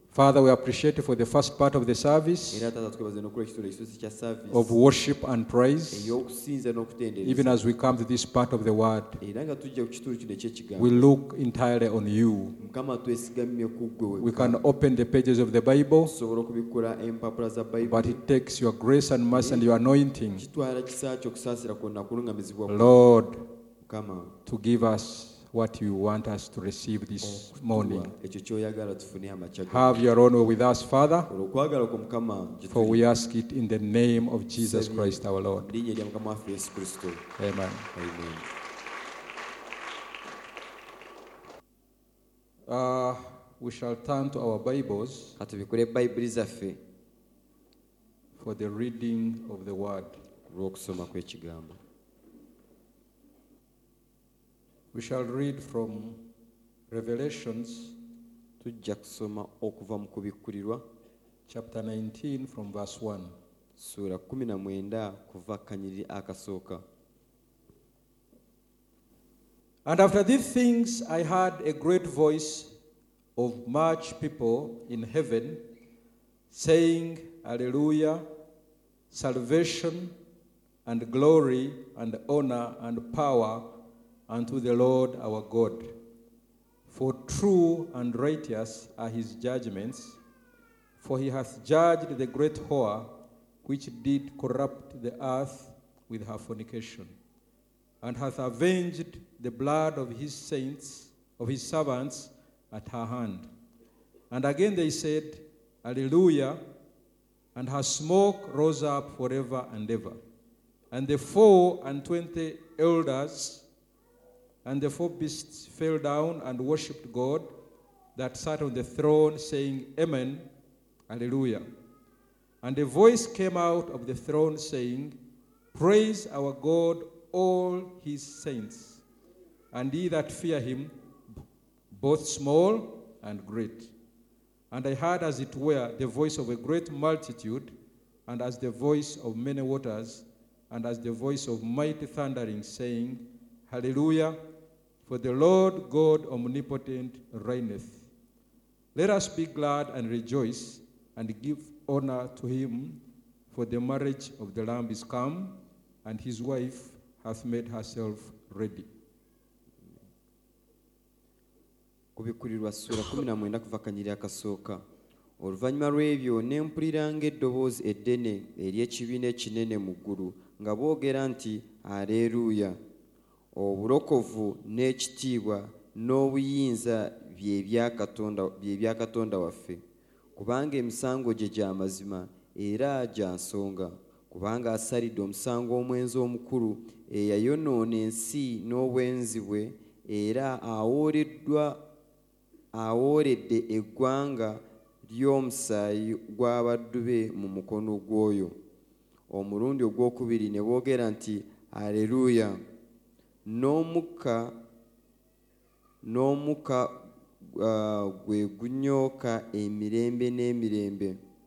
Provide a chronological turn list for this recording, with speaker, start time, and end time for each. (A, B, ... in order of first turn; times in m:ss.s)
0:00.1-0:02.7 A
0:02.5-0:04.7 B
0:04.5-0:06.2 A
0:05.9-0:07.6 B
0:07.2-0:09.2 A
0:09.2-0:11.1 B
0:10.8-0:12.6 A
0:12.6-0:14.6 B
0:14.2-0:16.1 A
0:16.1-0:18.2 B
0:17.8-0:20.4 A
0:19.3-0:19.7 B
0:20.4-0:22.9 B
0:22.7-0:23.4 A
0:23.8-0:24.3 B
0:24.5-0:28.1 A
0:27.2-0:30.0 B
0:29.7-0:31.3 A
0:31.3-0:33.0 B
0:32.7-0:35.7 A
0:34.6-0:37.2 B
0:37.4-0:37.9 A
0:38.0-0:38.4 B
0:42.7-0:45.4 A
0:45.4-0:46.8 B
0:48.4-0:50.1 A
0:50.5-0:51.8 B
0:54.9-0:56.2 A
0:56.9-0:57.9 A
0:58.6-1:00.8 B
1:01.5-1:03.3 A
1:03.8-1:06.8 B
1:09.8-1:12.7 A
1:13.4-1:15.6 A
1:16.5-1:18.2 A
1:19.1-1:20.1 A
1:20.9-1:23.7 A
1:24.3-1:25.9 A
1:26.9-1:30.2 A
1:31.0-1:33.1 A
1:33.6-1:37.1 A
1:38.0-1:43.5 A
1:44.3-1:46.6 A
1:47.6-1:50.2 A
1:50.9-1:53.6 A
1:54.6-1:57.5 A
1:58.2-2:00.5 A
2:01.1-2:01.6 A
2:02.6-2:05.2 A
2:05.7-2:09.0 A
2:09.7-2:10.9 A
2:11.9-2:13.9 A
2:14.7-2:17.7 A
2:18.3-2:24.4 A
2:25.0-2:28.0 A
2:29.0-2:33.0 A
2:33.5-2:38.9 A
2:42.2-2:44.8 B
2:45.4-2:52.8 B
2:53.5-2:59.8 B
3:00.4-3:11.8 B
3:12.7-3:18.5 B
3:19.3-3:22.6 B
3:23.5-3:24.6 B
3:26.0-3:31.2 B